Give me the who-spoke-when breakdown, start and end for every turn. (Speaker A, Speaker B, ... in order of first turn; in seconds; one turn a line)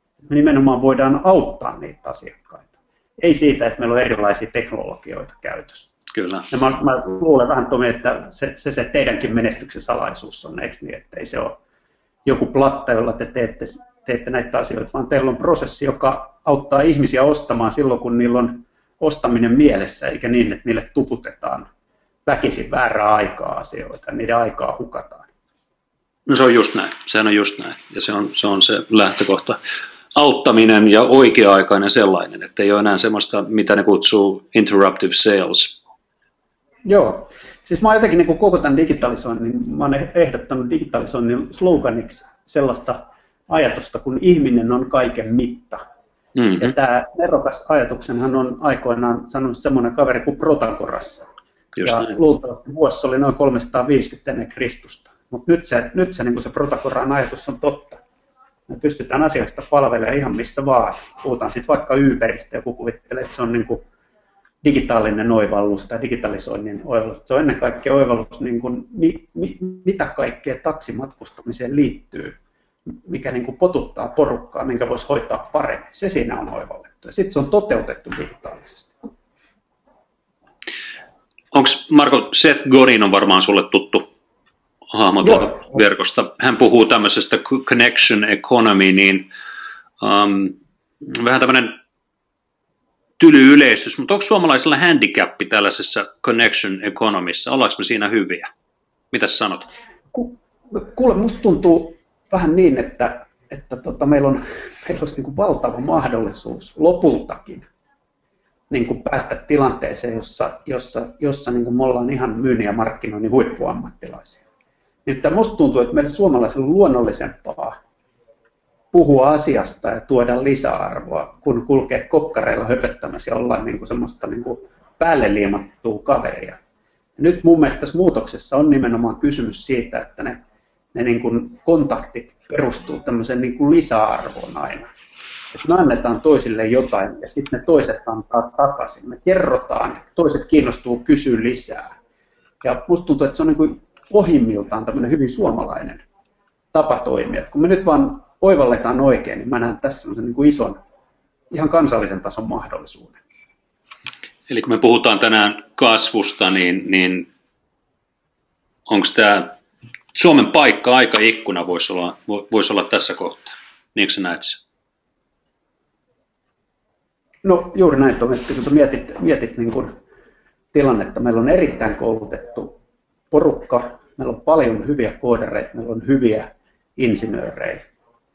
Speaker A: 0.2-5.9
Speaker B: 6.1-6.5
Speaker A: 6.5-11.6
Speaker A: 12.2-21.7
Speaker A: 22.2-25.3
Speaker B: 26.2-29.6
Speaker B: 30.1-35.8
Speaker A: 36.8-45.8
Speaker A: 46.5-51.2
Speaker A: 51.8-58.0
Speaker A: 58.7-63.8
Speaker A: 64.6-72.4
Speaker A: 73.0-79.0
Speaker B: 81.5-84.1
Speaker B: 84.9-89.3
Speaker A: 85.2-85.8
Speaker B: 90.0-91.7
Speaker B: 93.2-98.5
Speaker B: 99.1-99.7
Speaker A: 100.1-107.7
Speaker A: 108.7-114.4
Speaker A: 115.0-117.8
Speaker A: 118.9-126.6
Speaker A: 127.2-130.4
Speaker A: 130.9-134.9
Speaker A: 135.5-141.9
Speaker A: 142.6-146.0
Speaker A: 146.7-150.8
Speaker A: 151.5-153.2
Speaker B: 154.5-157.3
Speaker B: 158.9-159.6
Speaker B: 160.1-164.6
Speaker A: 167.4-170.0
Speaker A: 170.7-172.8
Speaker A: 173.3-177.8